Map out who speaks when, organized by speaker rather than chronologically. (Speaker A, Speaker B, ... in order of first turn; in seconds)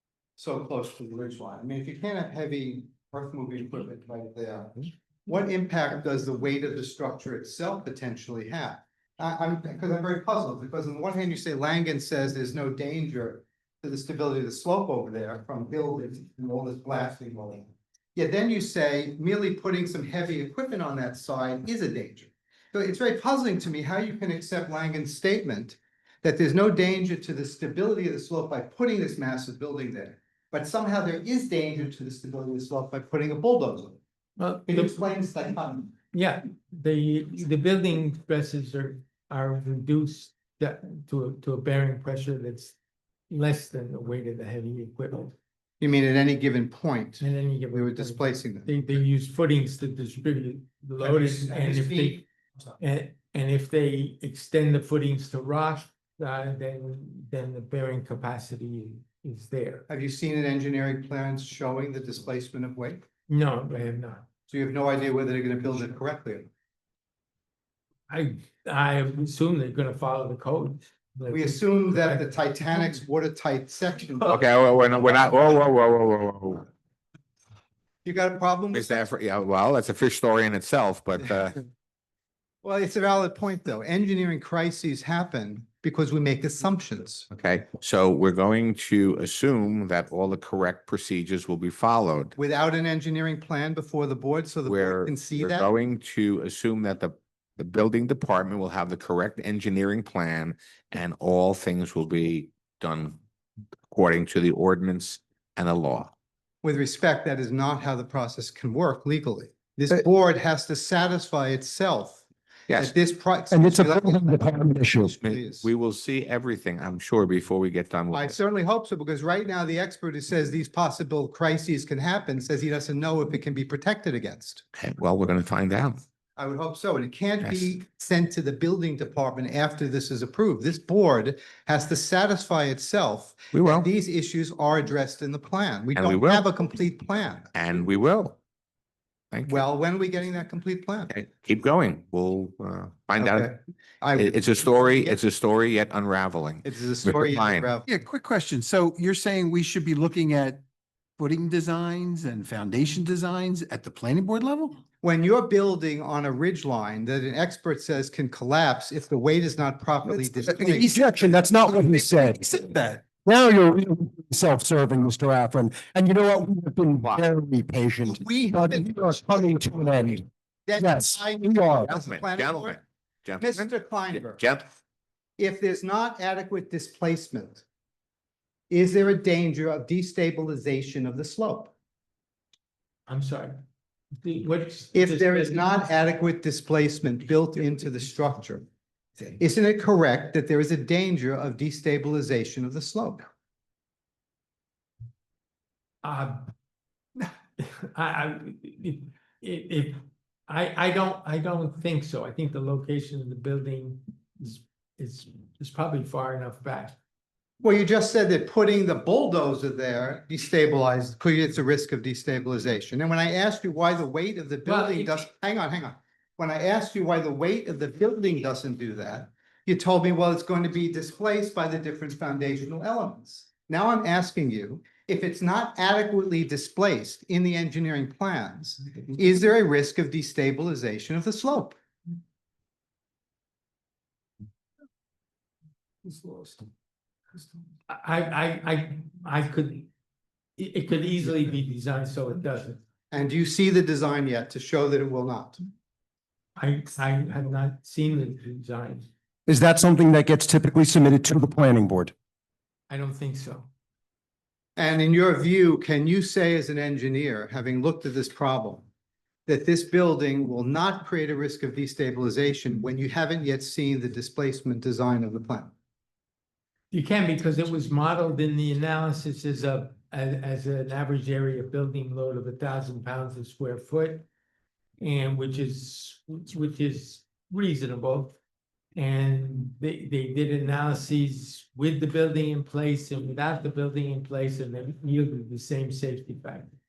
Speaker A: 0.4-34.0, 34.7-35.9, 45.8-48.7, 51.0-52.2, 59.9-63.0, 64.5-66.5, 71.3-74.4, 78.0-79.1, 82.6-87.3, 92.4-95.7, 106.6-112.2, 112.8-114.5, 115.1-115.7, 118.1-124.7, 126.4-137.5, 139.5-141.1, 143.2-145.2, 146.7-147.9, 155.0-160.9, 168.1-168.8, 170.7-172.8, 173.4-174.4, 175.4-177.6, 178.7-181.7, 184.9-188.7, 189.4-193.3, 207.6-231.8, 243.1-245.6, 254.8-258.9, 259.5-265.7
Speaker B: 34.4-35.0, 36.1-42.8, 43.3-45.4, 47.2-52.2, 52.8-59.9, 63.3-64.2, 68.1-73.0, 183.1-183.6, 184.2-185.8, 196.0-196.5, 197.6-207.0, 214.7-215.2, 236.1-236.3, 237.9-239.9, 240.6-242.8, 246.6-249.1, 252.9-253.7, 266.9-274.3, 275.0-278.4, 279.0-286.7
Speaker C: 74.3-76.7, 78.7-81.6, 87.3-92.3, 94.7-103.2, 103.9-106.1, 115.2-118.4, 124.8-126.0, 127.4-127.7, 133.5-133.9, 135.9-136.5, 137.5-138.4, 139.3-139.7, 141.1-143.5, 144.2-147.7, 171.9-174.7
Speaker D: 113.5-115.2, 160.6-162.5, 163.0-171.9, 249.5-252.1
Speaker E: 147.9-150.6, 151.2-154.8, 160.5-163.0